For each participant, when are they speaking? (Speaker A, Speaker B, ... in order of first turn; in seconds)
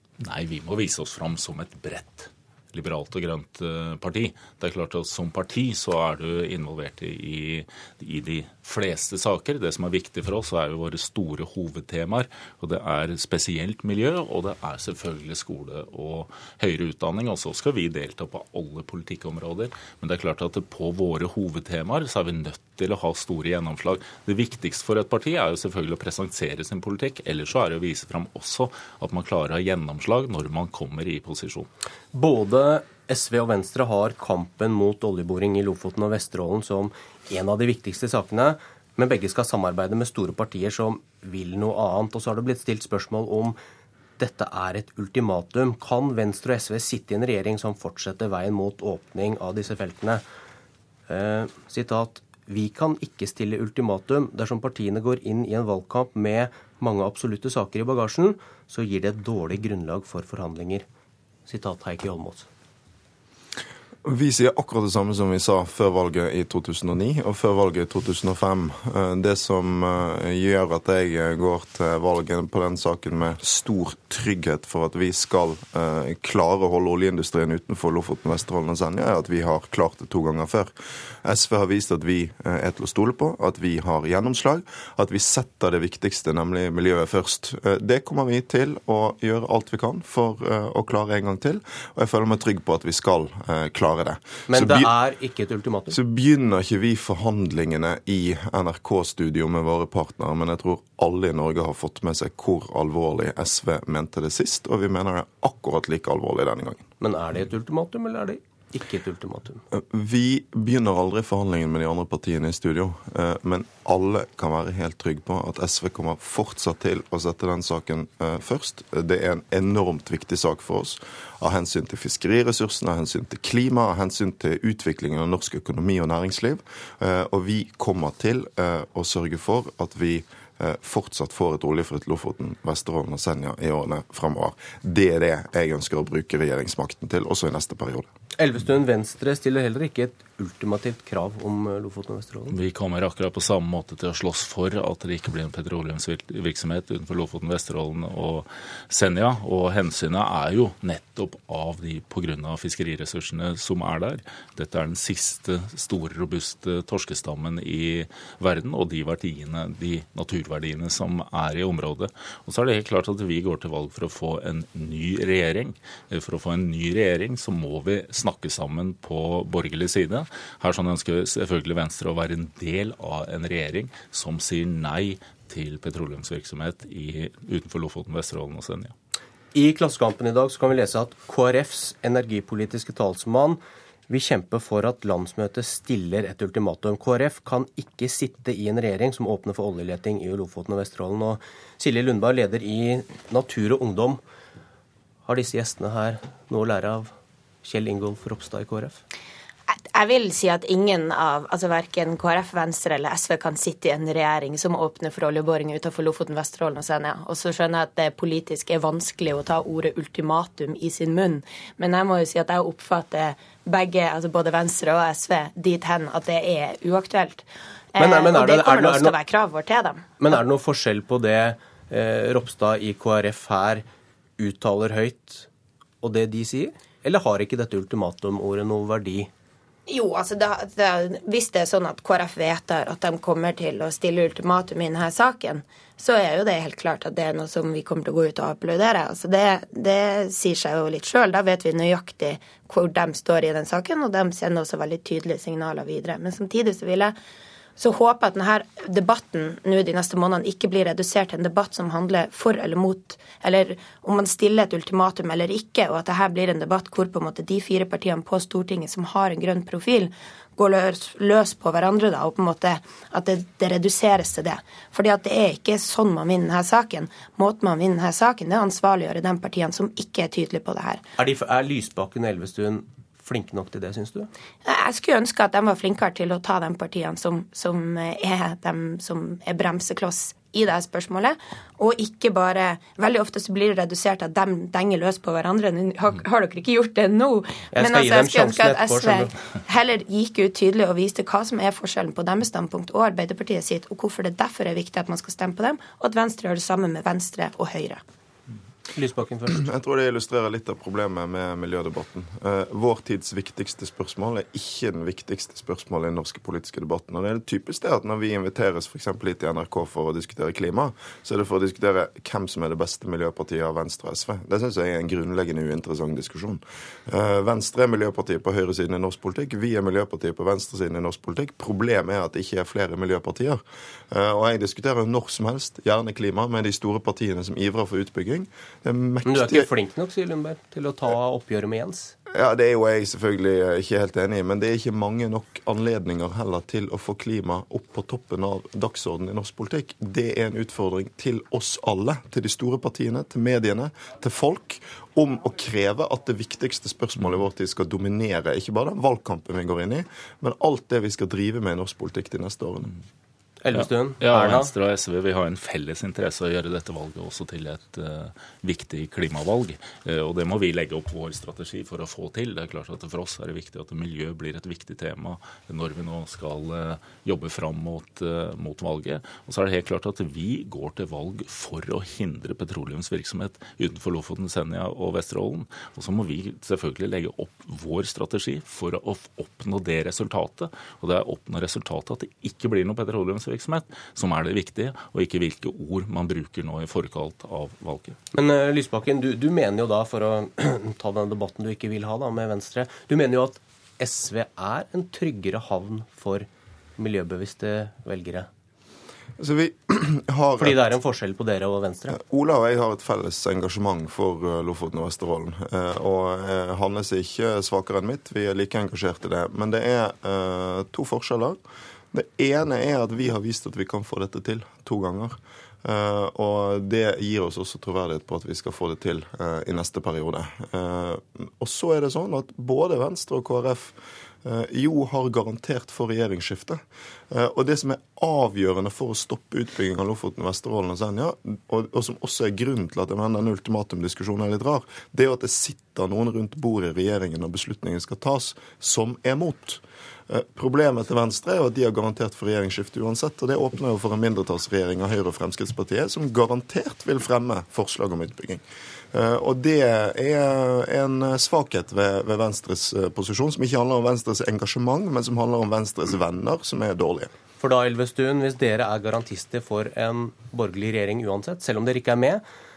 Speaker A: 0.2-31.7, 142.5-178.9, 353.7-388.2
Speaker B: 32.1-43.6, 44.2-50.2, 51.1-60.9, 61.5-62.5, 94.5-96.0, 107.0-109.6, 138.4-142.6, 179.5-194.2, 195.3-197.1, 197.6-199.0, 218.0-219.2, 220.2-223.8, 224.4-225.5, 226.0-229.3, 271.2-274.3, 287.7-289.4, 298.9-299.6, 329.3-332.1, 353.6-354.7, 388.3-398.5, 400.6-402.2, 457.6-462.4
Speaker C: 64.0-80.7, 81.2-94.9, 95.9-106.8, 109.7-138.1, 299.5-329.7, 332.3-352.9, 399.4-400.8, 402.1-411.6, 412.1-457.3
Speaker D: 199.7-220.1, 229.9-247.1, 247.8-271.1, 274.6-298.0